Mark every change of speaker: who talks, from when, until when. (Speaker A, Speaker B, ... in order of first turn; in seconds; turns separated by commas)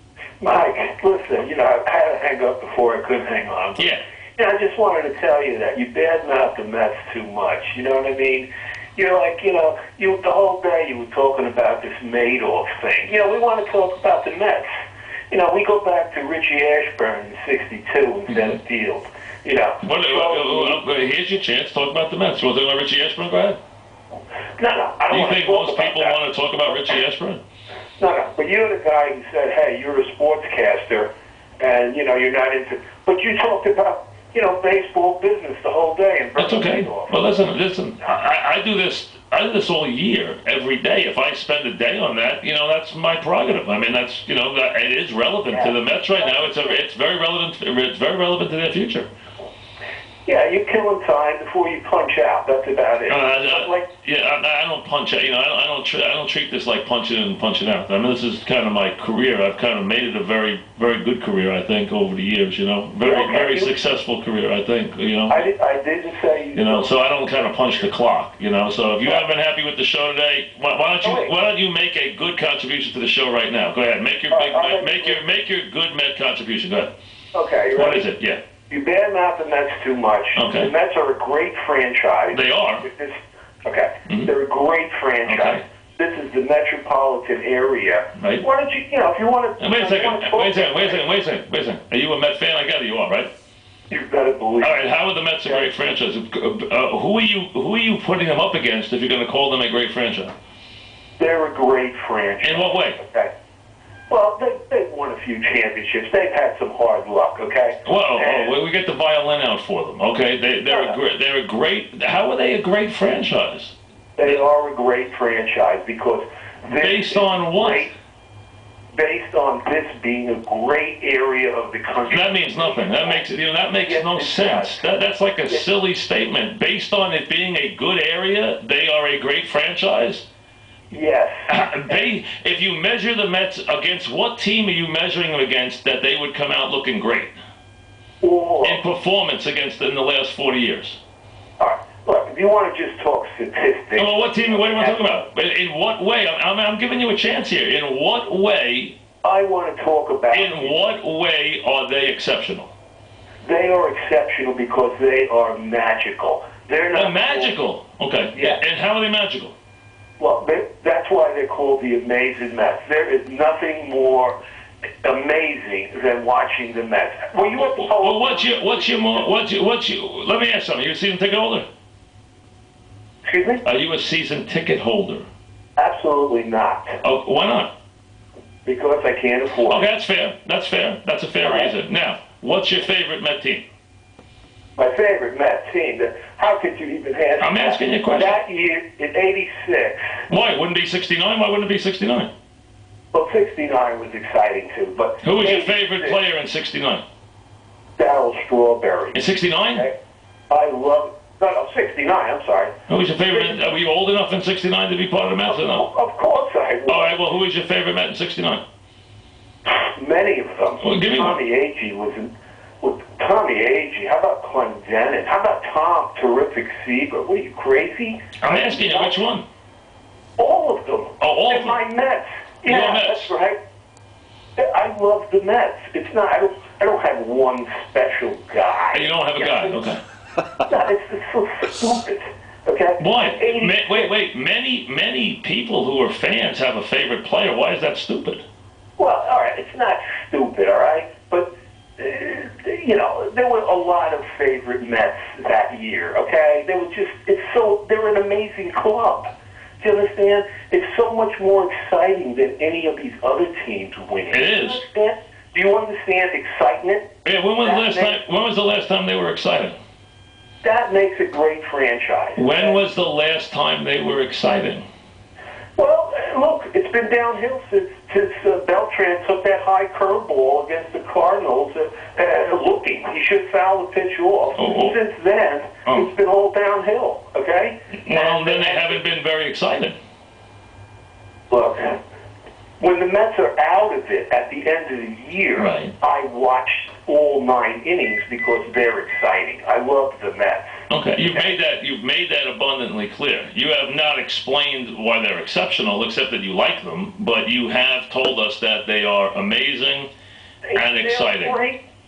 Speaker A: 0.4-14.6, Speaker A: 15.3-20.8, Speaker B: 18.3-18.6, Speaker B: 19.8-23.6, Speaker A: 24.6-26.2, Speaker B: 25.1-27.4, Speaker A: 28.0-37.3, Speaker B: 36.4-49.1, Speaker A: 45.5-46.8, Speaker A: 50.2-53.9, Speaker B: 53.1-65.5, Speaker A: 63.0-63.7, Speaker A: 65.3-67.9, Speaker B: 66.5-76.9, Speaker A: 71.0-71.3, Speaker A: 74.3-75.2, Speaker A: 77.3-78.0, Speaker B: 77.7-78.4, Speaker A: 78.7-91.0, Speaker B: 80.3-80.7, Speaker B: 82.3-82.8, Speaker B: 85.2-85.6, Speaker B: 88.2-88.4, Speaker B: 89.6-93.3, Speaker A: 93.9-94.8, Speaker B: 94.6-100.3, Speaker A: 101.2-103.3, Speaker B: 102.4-103.0, Speaker A: 104.1-108.5, Speaker B: 107.8-114.4, Speaker A: 110.7-111.0, Speaker A: 114.2-117.9, Speaker B: 116.7-117.9, Speaker A: 118.9-123.2, Speaker B: 122.1-130.2, Speaker A: 123.8-124.8, Speaker A: 130.9-131.5, Speaker B: 131.5-137.3, Speaker A: 138.2-138.8, Speaker B: 138.6-141.0, Speaker A: 141.6-145.2, Speaker B: 144.0-148.9, Speaker A: 149.2-150.8, Speaker B: 150.3-152.7, Speaker A: 153.4-157.5, Speaker B: 156.9-159.5, Speaker A: 158.3-158.6, Speaker A: 160.2-164.3, Speaker A: 165.0-169.3, Speaker B: 167.5-171.7, Speaker A: 173.2-173.6, Speaker B: 173.6-175.2, Speaker A: 175.8-177.0, Speaker B: 177.0-177.7, Speaker A: 178.6-179.9, Speaker B: 179.7-183.6, Speaker A: 181.3-181.7, Speaker A: 184.8-190.1, Speaker B: 187.4-188.4, Speaker B: 190.3-192.3, Speaker A: 193.1-196.2, Speaker B: 195.2-197.0, Speaker A: 198.0-199.2, Speaker B: 199.1-199.9, Speaker A: 200.5-202.7, Speaker B: 202.9-205.8, Speaker A: 203.3-203.6, Speaker A: 205.4-207.1, Speaker B: 206.9-208.6, Speaker A: 209.6-212.3, Speaker B: 210.8-211.4, Speaker A: 212.8-219.2, Speaker B: 218.4-219.4, Speaker A: 220.4-223.6, Speaker B: 221.2-221.8, Speaker B: 222.7-223.3, Speaker A: 224.6-229.8, Speaker B: 228.9-230.0, Speaker A: 230.7-234.1, Speaker B: 233.0-238.4, Speaker A: 239.0-249.3, Speaker A: 249.8-257.0, Speaker B: 254.3-254.8, Speaker B: 257.2-259.8, Speaker A: 257.6-258.1, Speaker A: 260.6-262.8, Speaker B: 262.4-264.8, Speaker A: 265.8-279.0, Speaker B: 274.6-274.9, Speaker B: 278.0-280.0, Speaker A: 281.5-281.9, Speaker A: 282.8-290.7, Speaker B: 285.6-285.9, Speaker B: 290.9-300.1, Speaker A: 300.7-301.8, Speaker B: 300.7-301.5